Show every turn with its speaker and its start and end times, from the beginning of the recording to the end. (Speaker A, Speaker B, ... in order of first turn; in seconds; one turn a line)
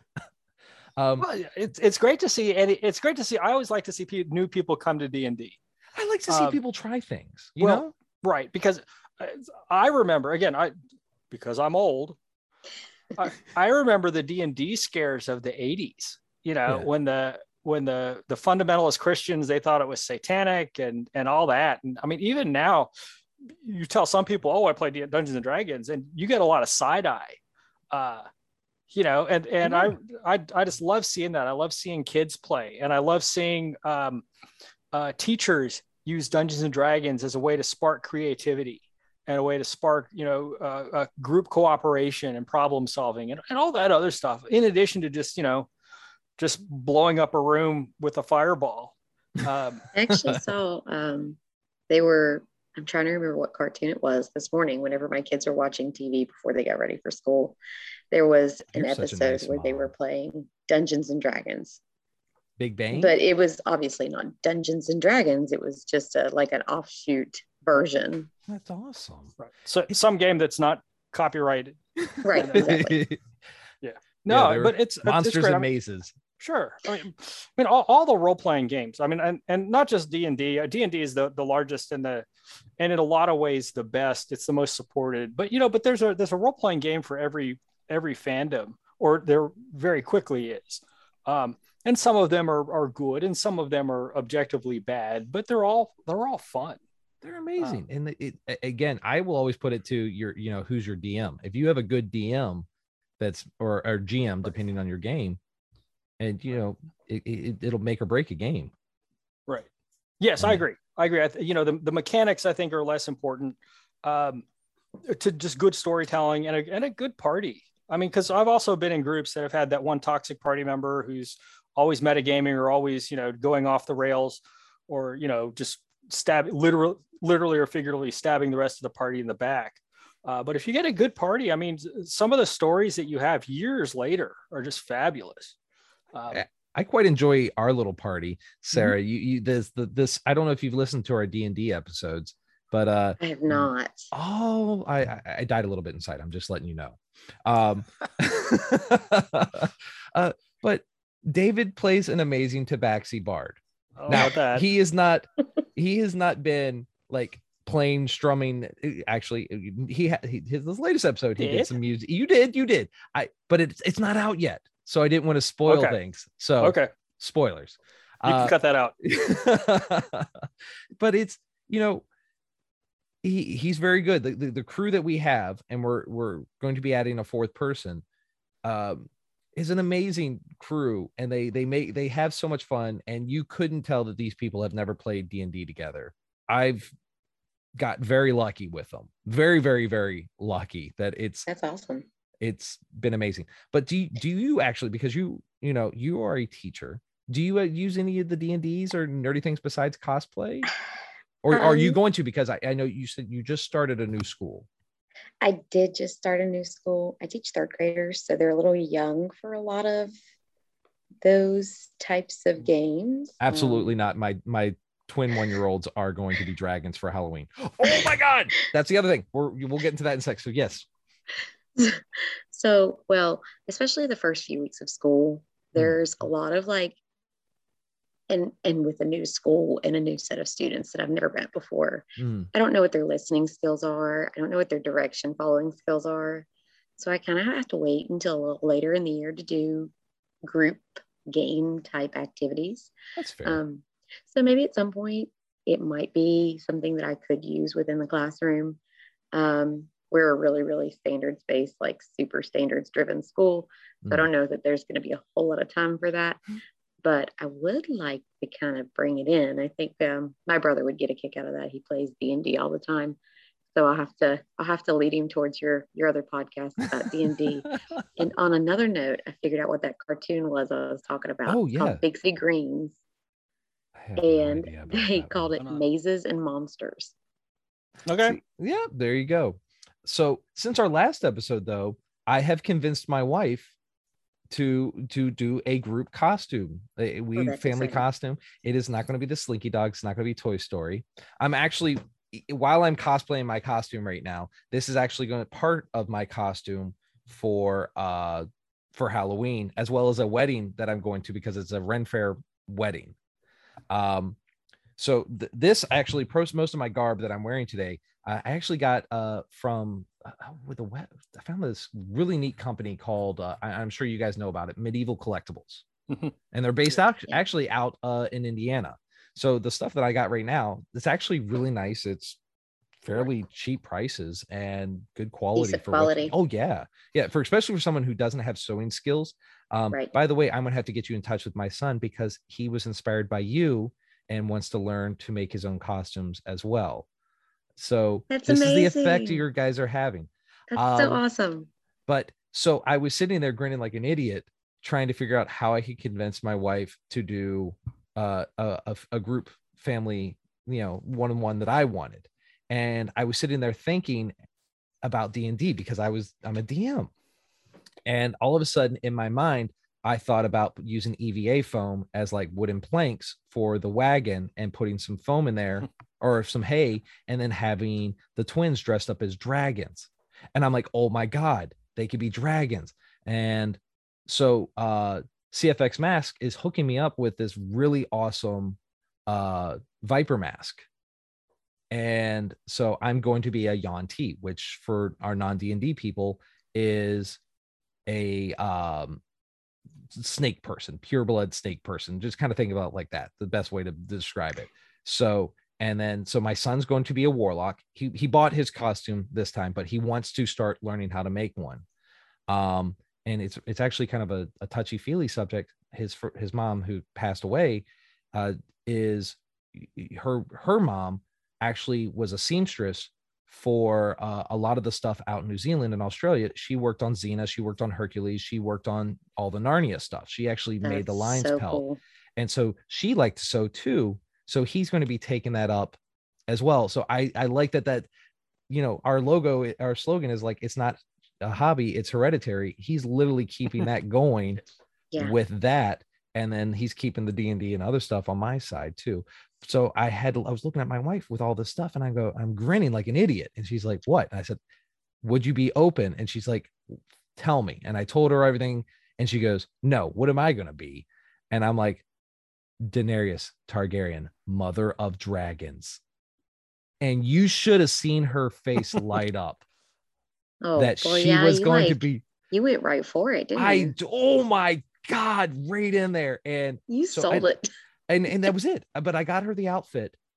Speaker A: 1.0-1.3
Speaker B: 1.2-5.6
Speaker A: 6.0-7.9
Speaker B: 6.3-6.6
Speaker B: 7.6-10.7
Speaker B: 11.3-12.2
Speaker B: 13.2-22.9
Speaker B: 23.6-27.4
Speaker B: 27.9-28.3
Speaker B: 28.9-34.2
Speaker A: 29.6-29.9
Speaker B: 34.9-45.7
Speaker B: 46.4-49.9
Speaker C: 49.9-51.4
Speaker C: 51.9-57.6
Speaker C: 58.1-61.8
Speaker A: 58.7-59.9
Speaker A: 62.6-63.1
Speaker C: 62.9-68.3
Speaker A: 68.5-69.4
Speaker B: 69.4-72.8
Speaker A: 72.1-73.2
Speaker C: 72.2-73.0
Speaker B: 73.8-75.7
Speaker A: 74.3-76.2
Speaker B: 76.4-82.3
Speaker B: 82.8-96.8
Speaker A: 97.2-102.7
Speaker A: 103.2-105.4
Speaker A: 106.2-108.7
Speaker B: 110.2-114.4
Speaker B: 115.1-135.6
Speaker B: 136.1-136.4
Speaker A: 136.3-172.1
Speaker C: 143.2-144.1
Speaker B: 154.0-154.7
Speaker B: 161.4-161.7
Speaker B: 165.7-166.0
Speaker B: 166.6-166.9
Speaker B: 168.2-168.9
Speaker A: 173.2-178.0
Speaker A: 178.6-186.9
Speaker A: 187.8-191.5
Speaker C: 191.5-192.1
Speaker A: 192.4-200.7
Speaker A: 201.4-204.7
Speaker C: 201.5-202.0
Speaker C: 205.4-210.1
Speaker C: 211.2-213.9
Speaker A: 213.4-220.9
Speaker C: 222.5-227.0
Speaker C: 228.3-236.5
Speaker A: 232.2-232.5
Speaker C: 237.0-239.9
Speaker C: 240.4-242.9
Speaker A: 243.2-243.6
Speaker C: 243.4-248.8
Speaker C: 249.3-256.4
Speaker C: 257.0-263.2
Speaker C: 263.7-273.0
Speaker A: 271.5-272.0
Speaker A: 274.0-275.5
Speaker C: 274.2-277.1
Speaker B: 275.6-275.9
Speaker B: 278.1-278.4
Speaker A: 278.2-283.7
Speaker A: 284.5-303.1
Speaker C: 287.4-288.1
Speaker A: 303.9-304.4
Speaker A: 305.0-315.9
Speaker A: 316.5-322.4
Speaker A: 323.0-337.1
Speaker C: 325.6-326.4
Speaker A: 337.8-341.2
Speaker C: 338.3-339.4
Speaker C: 340.7-341.7
Speaker A: 342.1-354.3
Speaker A: 355.0-357.1
Speaker A: 358.1-380.9
Speaker A: 381.9-387.4
Speaker A: 388.1-389.2
Speaker A: 390.1-401.9
Speaker A: 402.5-421.8
Speaker C: 420.8-422.0
Speaker A: 422.4-428.1
Speaker A: 428.7-434.6
Speaker A: 435.2-444.6
Speaker A: 445.2-452.1
Speaker A: 452.8-456.0
Speaker A: 457.0-459.6
Speaker C: 460.6-463.9
Speaker A: 460.8-462.2
Speaker A: 463.6-467.5
Speaker C: 466.9-467.7
Speaker A: 468.1-470.2